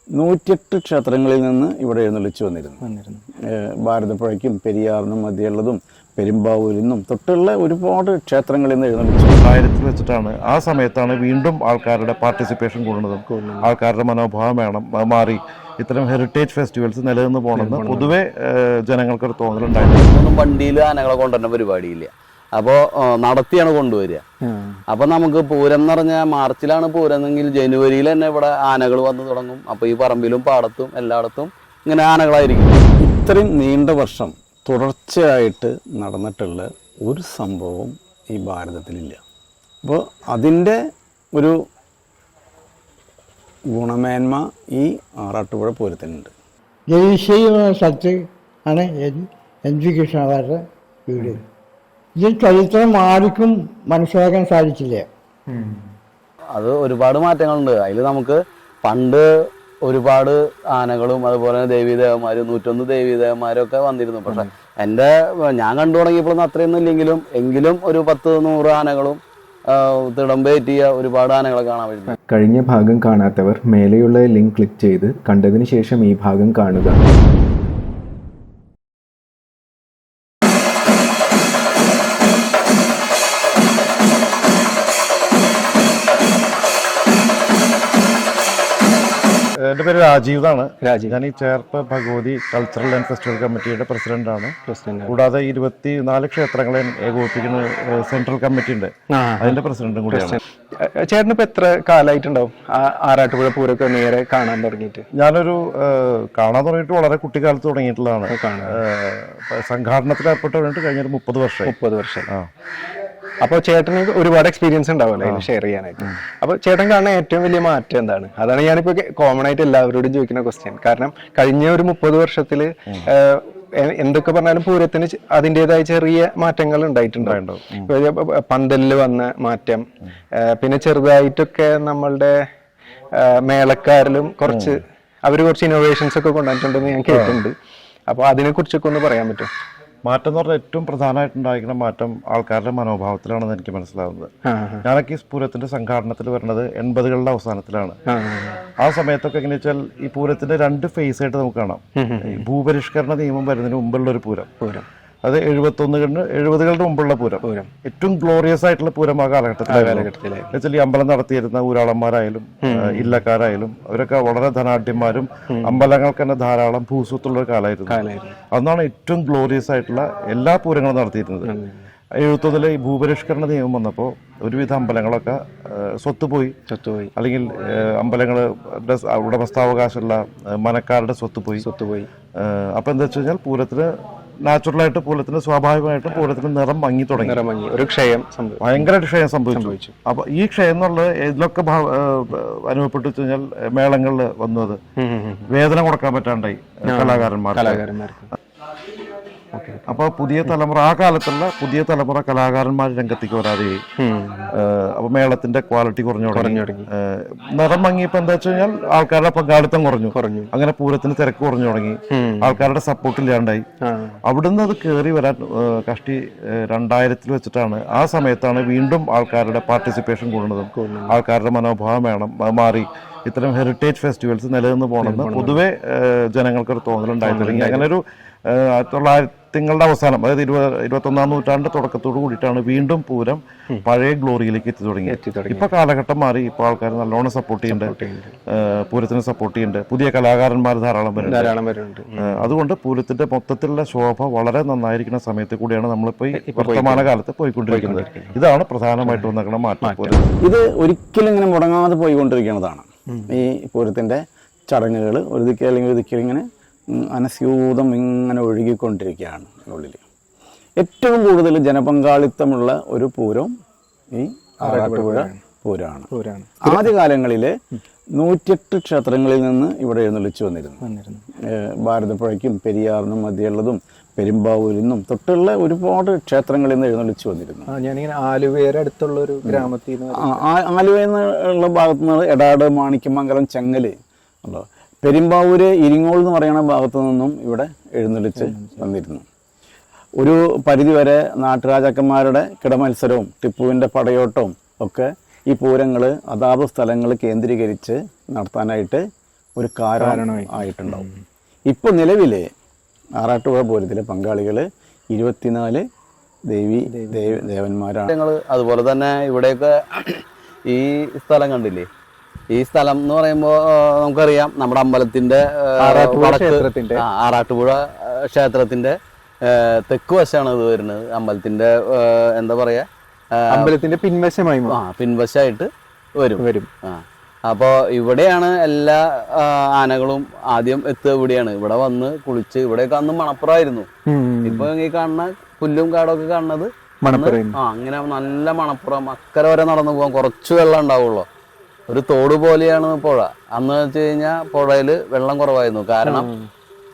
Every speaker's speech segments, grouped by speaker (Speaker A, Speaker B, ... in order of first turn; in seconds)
Speaker A: 0.2-2.8, 3.5-9.4, 33.0-39.2, 39.8-40.8, 43.7-46.3, 250.4-260.0, 260.8-263.5, 264.1-266.1, 266.6-267.5, 268.1-270.8, 271.5-277.7, 279.4-283.9, 284.4-289.2, 290.2-299.0, 299.6-301.1, 301.7-302.4, 303.2-305.8, 306.5-308.1
Speaker B: 2.8-3.2, 13.3-13.8, 17.5-18.2, 24.4-24.8, 55.5-55.8, 90.8-91.2, 94.7-95.2, 99.1-105.0, 108.3-108.8, 111.6-112.3, 113.4-129.8, 130.4-132.4, 133.2-137.5, 138.1-139.5, 144.5-144.8, 148.1-148.6, 152.0-152.4, 154.6-154.9, 157.4-157.7, 159.7-160.5, 162.7-163.2, 165.5-165.8, 167.9-168.4, 171.4-171.8, 176.7-177.1, 181.6-182.1, 187.2-188.9, 189.5-189.9, 195.0-195.5, 196.8-198.3, 199.5-200.5, 204.0-204.5, 206.3-206.9, 210.1-210.5, 212.1-212.6, 213.8-214.2, 220.7-221.2, 225.0-225.6, 227.2-227.9, 235.1-235.7, 237.7-238.3, 241.2-242.5, 246.3-247.1, 247.7-248.4, 249.0-250.2, 253.1-253.4, 264.6-265.4, 266.1-266.9, 270.8-271.2, 277.7-280.4, 288.4-288.8, 300.0-301.2, 306.9-307.4, 315.8-317.0, 323.5-324.8, 326.4-326.7, 334.1-334.7, 337.0-337.6, 346.0-346.5
Speaker C: 9.4-20.1, 89.6-100.4, 105.2-111.8, 127.2-127.9, 134.4-134.7, 137.1-137.4, 140.1-144.3, 144.8-148.0, 148.7-154.5, 155.2-168.0, 168.5-171.5, 172.2-176.6, 177.2-181.7, 182.4-183.9, 184.4-187.4, 188.6-194.8, 195.5-197.9, 199.9-203.8, 204.5-213.7, 214.2-237.9, 238.5-241.6, 242.2-250.2
Speaker D: 19.8-24.2, 24.9-32.8, 56.5-59.3, 59.8-69.2, 69.7-72.2, 308.1-311.9, 312.5-323.7, 324.7-333.9, 334.4-341.2, 341.9-346.3
Speaker E: 46.9-51.4, 52.2-55.0
Speaker F: 72.3-77.0